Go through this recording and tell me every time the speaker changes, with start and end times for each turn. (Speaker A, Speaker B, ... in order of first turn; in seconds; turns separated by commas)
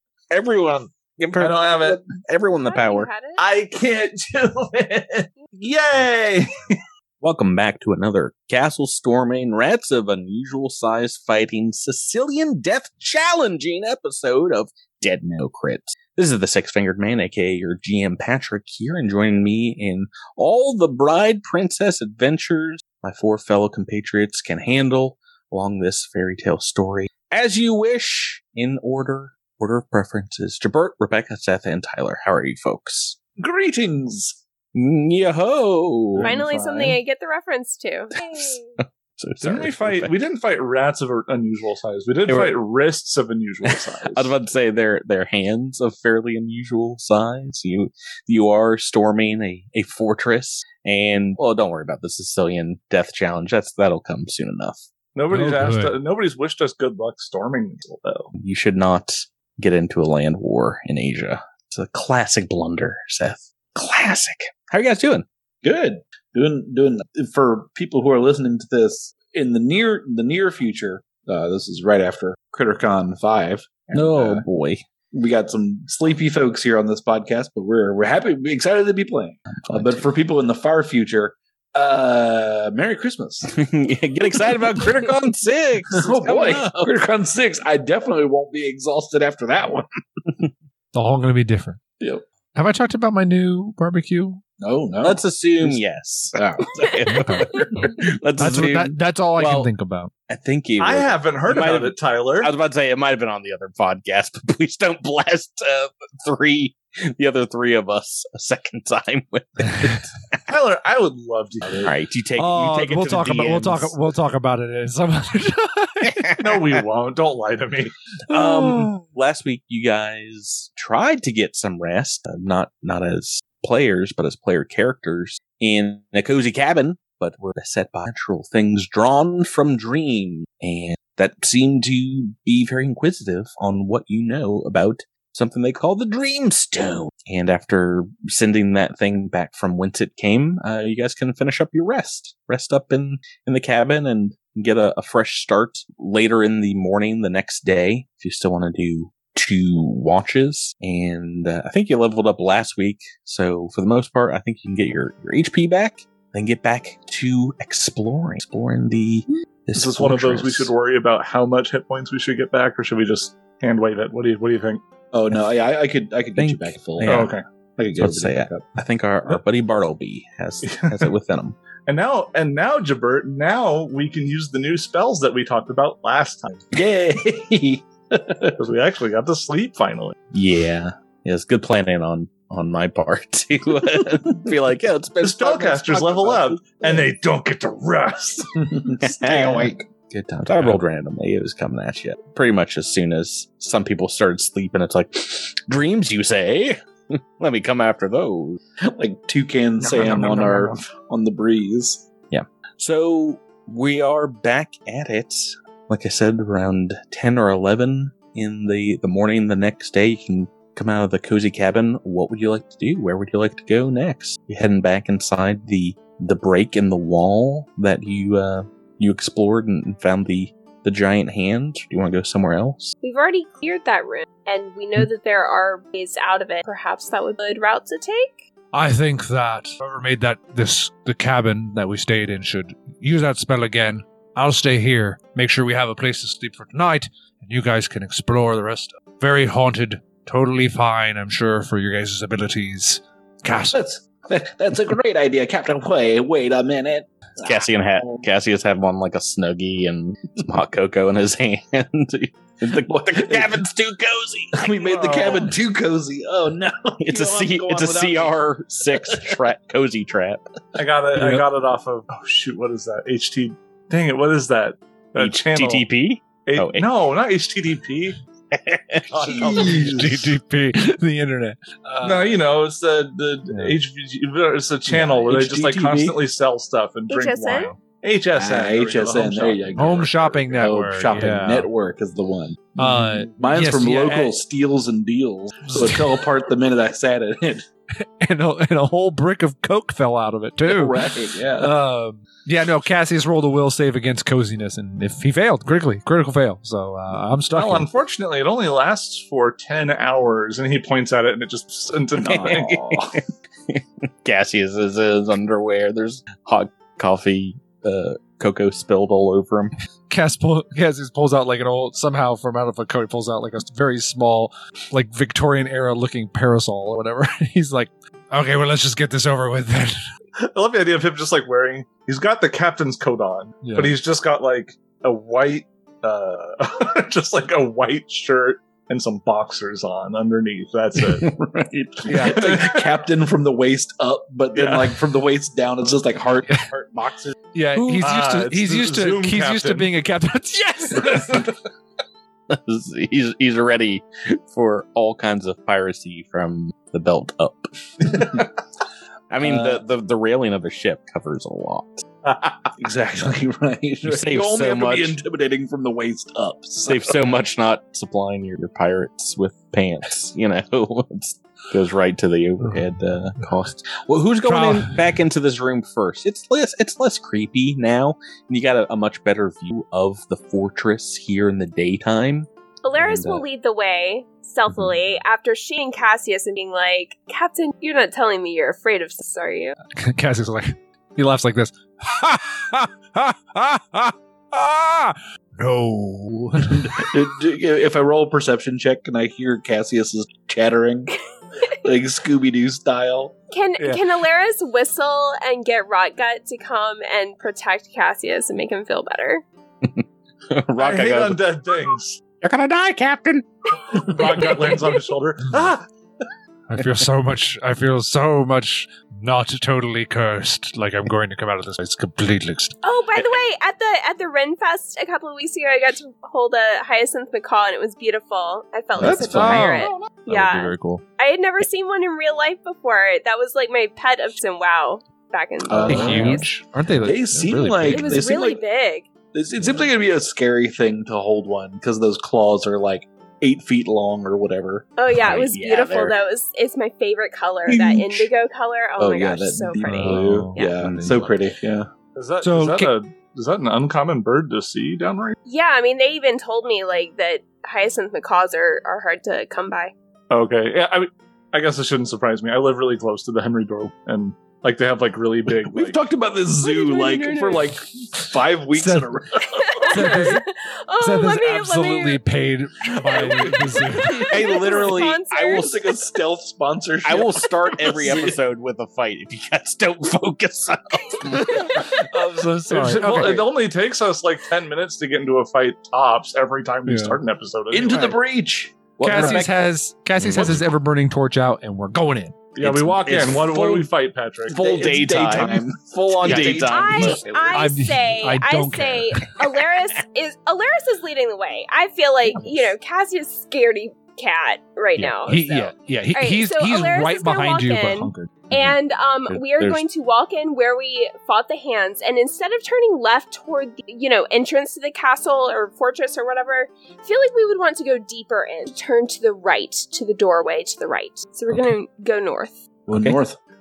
Speaker A: 0.3-3.1, Speaker B: 1.3-2.0, Speaker C: 2.6-3.4, Speaker B: 3.4-6.8, Speaker A: 7.2-33.2, Speaker D: 33.4-34.4, Speaker A: 34.7-36.3, Speaker B: 36.2-37.0, Speaker C: 36.2-38.8, Speaker A: 38.2-40.1, Speaker B: 39.4-44.3, Speaker A: 42.2-42.5, Speaker A: 43.6-54.8, Speaker B: 55.1-58.3, Speaker E: 55.3-56.0, Speaker A: 58.3-65.2, Speaker D: 65.6-74.5, Speaker A: 73.9-74.8, Speaker D: 75.1-83.5, Speaker A: 79.6-80.0, Speaker A: 83.5-86.9, Speaker D: 85.9-89.8, Speaker E: 90.9-91.8, Speaker D: 92.0-92.2, Speaker E: 92.5-94.4, Speaker D: 94.6-95.8, Speaker A: 95.0-99.7, Speaker D: 96.3-96.7, Speaker E: 98.4-100.1, Speaker A: 100.3-110.4, Speaker B: 100.8-102.5, Speaker B: 110.5-111.9, Speaker A: 111.7-114.0, Speaker E: 112.4-116.3, Speaker A: 116.0-116.8, Speaker B: 116.4-117.9, Speaker A: 118.3-160.7, Speaker B: 159.7-164.8, Speaker D: 165.1-168.7, Speaker A: 166.4-167.3, Speaker B: 167.1-167.4, Speaker A: 168.0-171.6, Speaker B: 170.6-171.1, Speaker B: 171.8-176.7, Speaker D: 176.7-178.6, Speaker B: 178.6-180.2, Speaker A: 180.3-187.0, Speaker B: 185.2-188.6, Speaker D: 188.6-189.8, Speaker A: 189.0-198.6, Speaker D: 198.8-202.1, Speaker B: 199.9-200.6, Speaker E: 200.0-200.6, Speaker A: 202.3-222.9, Speaker C: 223.0-228.4, Speaker E: 228.7-243.8, Speaker D: 243.7-248.2, Speaker A: 247.4-255.4, Speaker D: 252.9-253.6, Speaker D: 254.5-259.4, Speaker B: 254.8-255.5, Speaker A: 257.0-260.6, Speaker B: 260.7-265.9, Speaker E: 261.1-261.4, Speaker A: 265.2-266.9, Speaker B: 266.4-268.2, Speaker A: 268.5-269.7, Speaker B: 269.1-270.3, Speaker D: 269.3-270.1, Speaker E: 269.4-272.4, Speaker B: 272.0-280.1, Speaker E: 273.5-273.8, Speaker A: 275.1-276.2, Speaker C: 277.1-277.7, Speaker D: 278.4-282.8, Speaker E: 279.7-281.7, Speaker E: 282.8-284.4, Speaker B: 282.8-283.3, Speaker D: 283.4-287.6, Speaker E: 285.7-286.2, Speaker E: 288.0-291.0, Speaker D: 290.6-291.7, Speaker E: 291.6-297.9, Speaker B: 297.5-302.8, Speaker D: 302.2-303.2, Speaker A: 302.2-303.2, Speaker A: 303.7-309.7, Speaker E: 310.1-319.9, Speaker B: 320.4-331.3, Speaker E: 323.6-323.9, Speaker A: 331.1-332.2, Speaker D: 332.0-337.3, Speaker E: 332.1-332.6, Speaker B: 332.2-332.8, Speaker B: 334.5-335.0, Speaker E: 337.5-341.5, Speaker A: 337.8-338.0, Speaker B: 338.0-339.9, Speaker A: 342.5-348.6, Speaker A: 349.3-352.1, Speaker D: 349.4-349.8, Speaker D: 352.8-357.3, Speaker A: 354.0-355.2, Speaker A: 356.9-372.5, Speaker E: 364.4-365.0, Speaker C: 372.8-379.8, Speaker A: 373.0-373.4, Speaker E: 379.9-387.2, Speaker D: 386.7-391.1, Speaker D: 391.8-393.3, Speaker C: 393.5-399.4, Speaker A: 399.8-401.4, Speaker B: 400.8-402.2, Speaker A: 402.4-404.6, Speaker B: 403.9-405.8, Speaker E: 406.7-412.8, Speaker C: 412.8-426.5, Speaker D: 419.0-419.8, Speaker E: 419.0-421.0, Speaker D: 425.7-426.4, Speaker E: 425.8-428.2, Speaker D: 427.0-428.6, Speaker C: 427.9-429.1, Speaker D: 429.3-434.9, Speaker C: 435.0-440.2, Speaker A: 435.1-436.1, Speaker D: 437.7-438.3, Speaker D: 439.0-441.9, Speaker E: 439.8-441.1, Speaker A: 440.5-441.4, Speaker B: 442.1-445.4, Speaker E: 442.4-442.9, Speaker C: 445.4-449.9, Speaker B: 450.3-456.0, Speaker D: 455.5-460.2, Speaker C: 456.6-457.7, Speaker E: 458.7-459.1, Speaker C: 459.4-462.2, Speaker E: 459.9-460.4, Speaker E: 461.0-464.3, Speaker D: 463.1-464.9, Speaker C: 463.1-465.7, Speaker A: 464.3-465.9, Speaker D: 465.5-468.4, Speaker A: 467.0-472.3, Speaker E: 471.5-473.5, Speaker B: 471.9-478.2, Speaker E: 476.9-477.2, Speaker D: 477.7-479.5, Speaker A: 479.0-479.5, Speaker E: 479.0-482.8, Speaker A: 480.2-480.6, Speaker B: 482.5-484.7, Speaker A: 482.6-483.9, Speaker D: 483.2-483.6, Speaker D: 484.4-487.7, Speaker A: 484.5-487.2, Speaker E: 486.2-486.6, Speaker C: 486.6-512.6, Speaker E: 487.5-489.3, Speaker E: 495.0-498.4, Speaker A: 499.3-499.8, Speaker D: 512.9-513.4, Speaker A: 512.9-513.2